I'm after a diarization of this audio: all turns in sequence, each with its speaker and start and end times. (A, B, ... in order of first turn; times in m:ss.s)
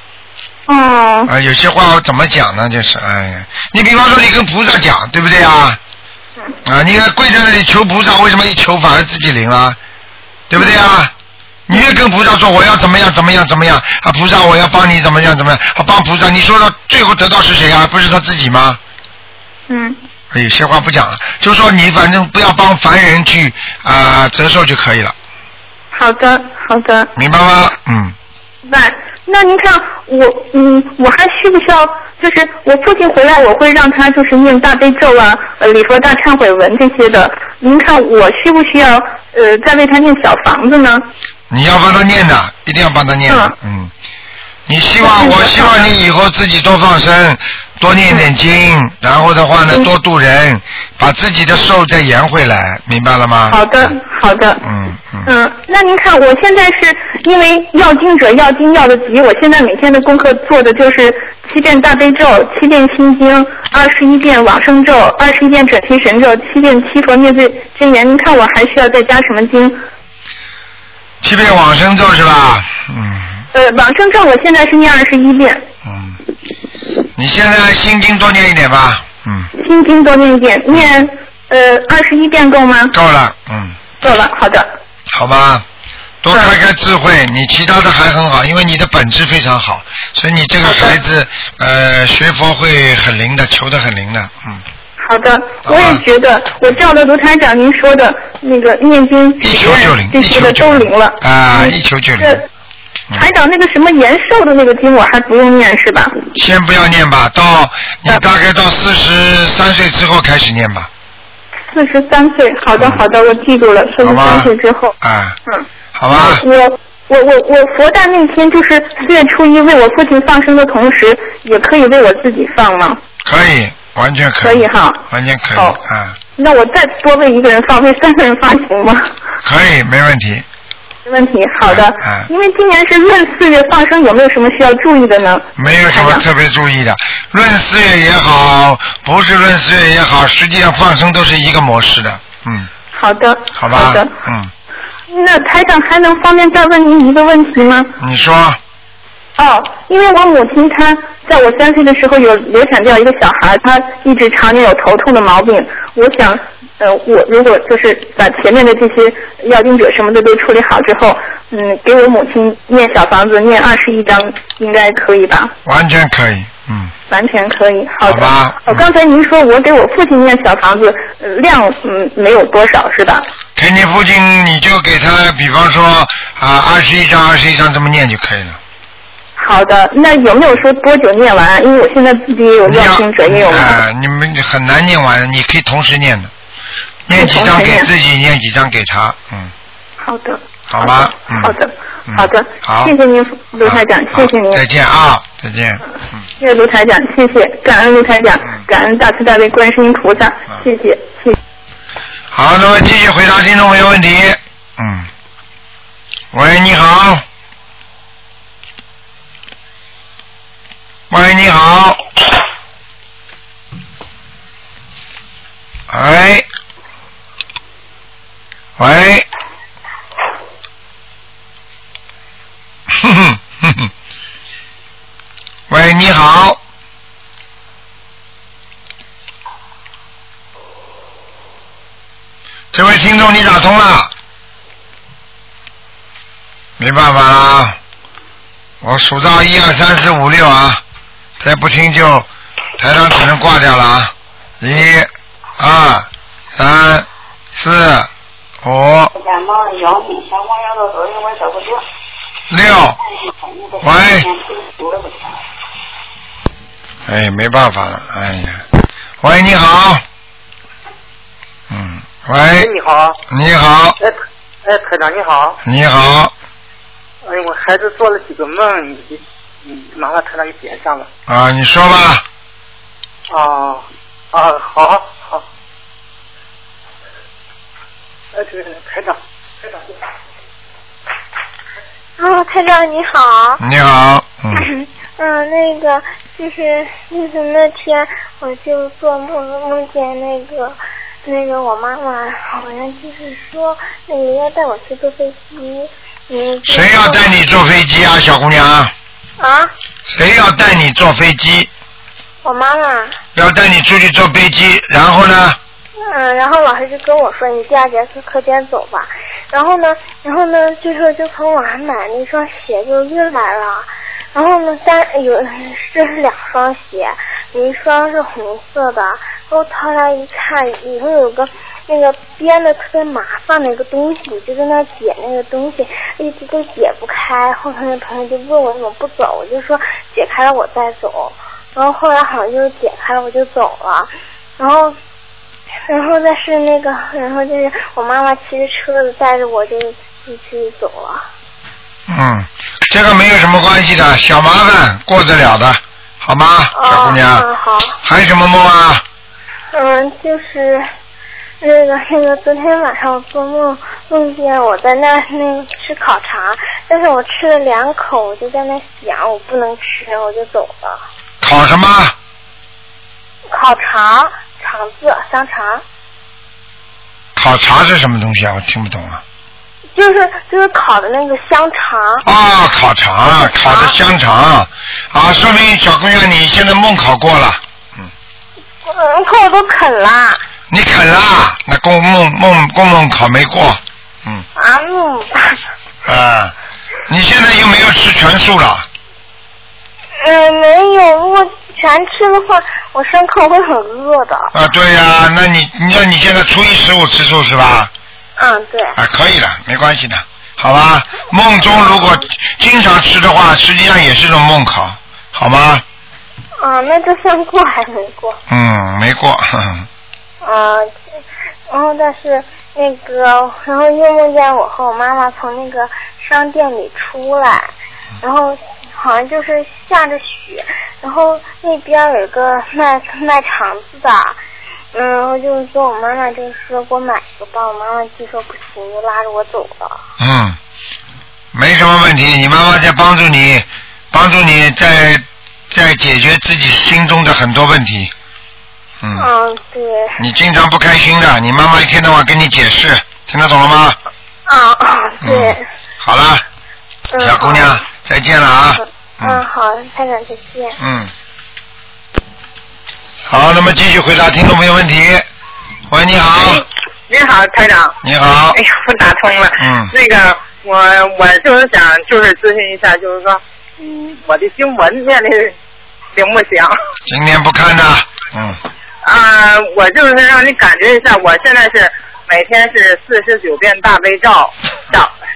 0:00.7-0:01.3 A
0:01.3-0:05.8 B
0:06.6-0:09.8 B
0:10.5-0:11.1 B
0:11.7-0:18.8 B
0:19.7-0:20.0 A
0:20.3-0:25.1 B
0:25.9-0:27.1 A
0:27.2-0:28.1 B
0:28.6-0:41.0 A
0:41.5-0:43.9 B
0:43.3-0:43.5 A
0:44.7-0:53.9 B
0:45.0-0:45.8 A
0:53.5-0:54.6 A
0:54.6-0:55.3 B
0:55.2-1:09.8 A
1:11.2-1:13.4 B
1:13.5-1:15.6 A
1:15.8-1:16.2 B
1:17.2-1:19.5 B
1:19.6-1:22.9 A
1:22.9-1:23.8 B
1:24.0-1:24.7 A
1:25.1-1:25.6 B
1:26.2-1:34.6 B
1:30.6-1:31.0 A
1:35.0-1:42.4 A
1:35.6-1:36.0 B
1:39.4-1:42.4 B
1:43.1-1:46.2 A
1:46.3-1:50.9 B
1:51.7-1:55.0 A
1:52.8-1:53.0 B
1:54.0-1:55.4 B
1:55.5-2:03.0 A
1:55.9-1:56.4 B
2:03.2-2:06.2 B
2:04.4-2:05.0 A
2:06.4-2:09.1 A
2:09.4-2:10.4 B
2:11.0-2:16.2 A
2:11.7-2:12.3 B
2:15.6-2:22.7 B
2:22.9-2:24.1 A
2:23.5-2:24.5 B
2:25.1-2:27.9 A
2:28.0-2:28.6 B
2:29.4-2:45.5 A
2:45.6-2:46.9 B
2:47.1-2:53.2 A
2:48.0-2:48.8 B
2:53.6-2:58.6 B
2:59.4-3:03.8 A
3:02.7-3:06.3 B
3:07.1-3:09.5 B
3:07.1-3:07.9 A
3:10.0-3:14.6 A
3:10.7-3:11.5 B
3:12.1-3:12.9 B
3:13.6-3:15.8 B
3:16.4-3:21.4 A
3:22.3-3:25.1 B
3:26.3-3:27.2 B
3:31.1-3:32.0 B
3:35.9-3:36.4 B
3:38.8-3:39.2 B
3:42.9-3:43.9 B
3:45.7-3:46.6 B
3:52.7-3:54.1 B
3:56.8-3:57.8 B
3:58.8-4:00.8 B
4:01.4-4:02.3 B
4:02.8-4:08.1 B
4:08.6-4:09.1 B
4:09.4-4:11.5 C
4:12.5-4:13.0 B
4:13.8-4:14.3 B
4:17.1-4:18.6 B
4:19.2-4:20.0 B
4:21.7-4:22.7 B
4:23.3-4:24.0 B
4:25.6-4:26.3 B
4:31.3-4:32.2 B
4:42.2-4:43.6 D
4:43.6-4:44.6 B
4:44.6-4:57.3 D
4:56.6-4:58.9 B
4:59.4-4:59.7 D
5:00.1-5:01.7 B
5:02.4-5:03.2 D
5:03.3-5:05.6 B
5:06.1-5:34.9 D
5:35.9-5:41.2 D
5:42.1-5:47.4 B
5:46.7-5:48.0 D
5:48.0-5:49.0 B
5:49.7-5:50.9 D
5:51.6-6:01.0 D
6:01.4-6:02.1 B
6:03.5-6:05.8 D
6:07.4-6:09.2 B
6:09.9-6:12.2 D
6:12.2-6:18.1 B
6:13.7-6:13.9 D
6:18.9-6:20.4 D
6:20.7-6:24.4 B
6:24.6-6:25.6 D
6:26.0-6:26.5 B
6:27.1-6:28.8 B
6:30.2-6:34.5 D
6:34.5-6:37.9 B
6:38.4-6:39.0 D
6:39.0-6:45.8 B
6:46.6-6:48.4 D
6:48.5-6:49.9 B
6:50.4-6:50.9 D
6:51.7-6:57.7 D
6:58.2-7:04.4 D
7:04.9-7:10.0 D
7:10.2-7:10.6 B
7:11.5-7:18.1 B
7:19.0-7:19.3 B
7:19.2-7:20.2 D
7:20.2-7:24.0 B
7:24.5-7:25.6 D
7:25.2-7:26.4 B
7:27.1-7:27.7 D
7:27.2-7:29.4 B
7:29.2-7:30.8 D
7:30.8-7:31.1 B
7:33.3-7:35.2 B
7:35.9-7:36.6 B
7:36.4-7:38.0 E
7:38.0-7:38.6 B
7:38.5-7:43.4 E
7:39.6-7:39.9 B
7:44.2-7:45.5 E
7:46.1-7:46.8 E
7:47.1-7:48.6 B
7:49.0-7:55.1 E